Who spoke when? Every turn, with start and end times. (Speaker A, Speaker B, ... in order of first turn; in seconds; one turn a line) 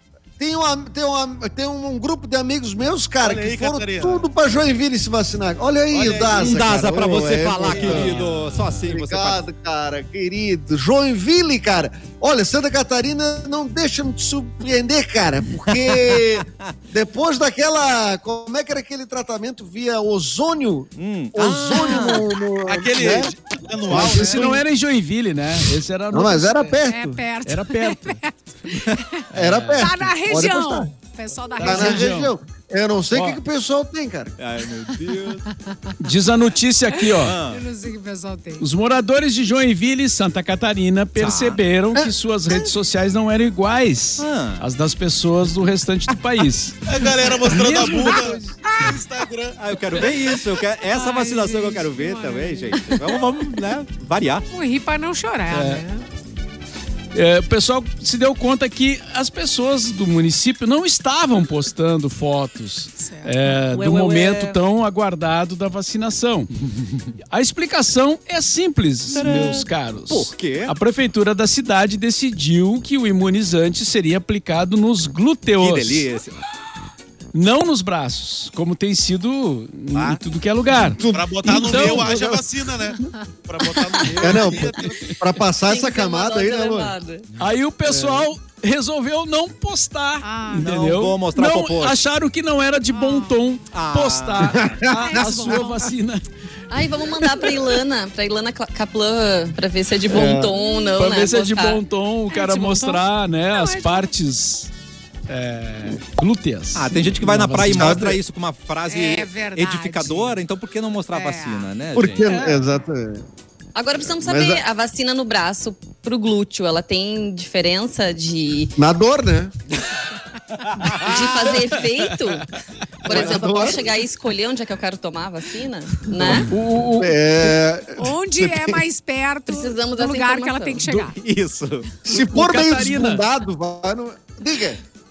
Speaker A: 0.4-8.2
Speaker B: 3.2-4.2
Speaker B: 5.9-7.0
Speaker C: 6.3-9.4
Speaker B: 7.7-8.2
Speaker D: 7.8-8.8
Speaker A: 8.8-23.3
Speaker C: 15.7-16.2
Speaker C: 21.0-22.3
Speaker B: 22.6-24.6
Speaker A: 23.9-24.6
Speaker D: 23.9-26.8
Speaker A: 26.1-27.2
Speaker E: 26.9-32.2
Speaker D: 27.4-28.2
Speaker C: 28.7-29.0
Speaker D: 29.3-30.1
Speaker A: 29.3-30.9
Speaker D: 31.6-32.3
Speaker A: 31.6-34.4
Speaker D: 33.1-33.4
Speaker C: 34.4-35.4
Speaker E: 34.9-35.9
Speaker D: 36.0-37.4
Speaker E: 37.0-38.6
Speaker C: 37.2-37.6
Speaker D: 38.6-46.8
Speaker C: 41.2-41.6
Speaker A: 42.0-42.6
Speaker C: 44.2-44.6
Speaker B: 46.9-49.6
Speaker D: 47.4-48.6
Speaker C: 49.6-54.5
Speaker E: 50.2-53.6
Speaker E: 54.5-56.0
Speaker D: 55.5-55.8
Speaker D: 57.1-66.5
Speaker E: 63.0-63.7
Speaker C: 63.8-64.5
Speaker D: 67.3-76.1
Speaker C: 69.1-70.7
Speaker C: 75.6-76.4
Speaker D: 77.3-82.1
Speaker B: 79.9-80.2
Speaker A: 80.9-82.4
Speaker B: 81.1-85.2
Speaker C: 84.1-84.6
Speaker A: 84.2-86.9
Speaker F: 85.6-87.3
Speaker D: 87.4-96.2
Speaker A: 87.9-88.3
Speaker E: 90.2-90.7
Speaker C: 90.6-92.0
Speaker E: 92.9-93.4
Speaker C: 93.7-94.7
Speaker A: 94.5-95.2
Speaker E: 94.9-95.9
Speaker F: 96.7-101.8
Speaker A: 100.1-100.5
Speaker D: 101.0-104.7
Speaker E: 102.3-104.1
Speaker D: 105.3-108.1
Speaker C: 106.7-112.3
Speaker A: 107.7-108.2
Speaker E: 108.9-110.4
Speaker E: 111.1-111.8
Speaker A: 111.9-113.3
Speaker D: 112.3-112.6
Speaker F: 113.7-118.8
Speaker A: 114.0-114.6
Speaker A: 118.8-119.5
Speaker C: 120.8-121.1
Speaker F: 120.9-122.5
Speaker F: 123.0-126.5
Speaker A: 123.1-123.9
Speaker D: 126.2-127.6
Speaker A: 126.2-128.8
Speaker E: 128.0-131.2
Speaker F: 129.5-130.9
Speaker C: 130.9-131.9
Speaker A: 132.1-134.8
Speaker D: 132.1-133.2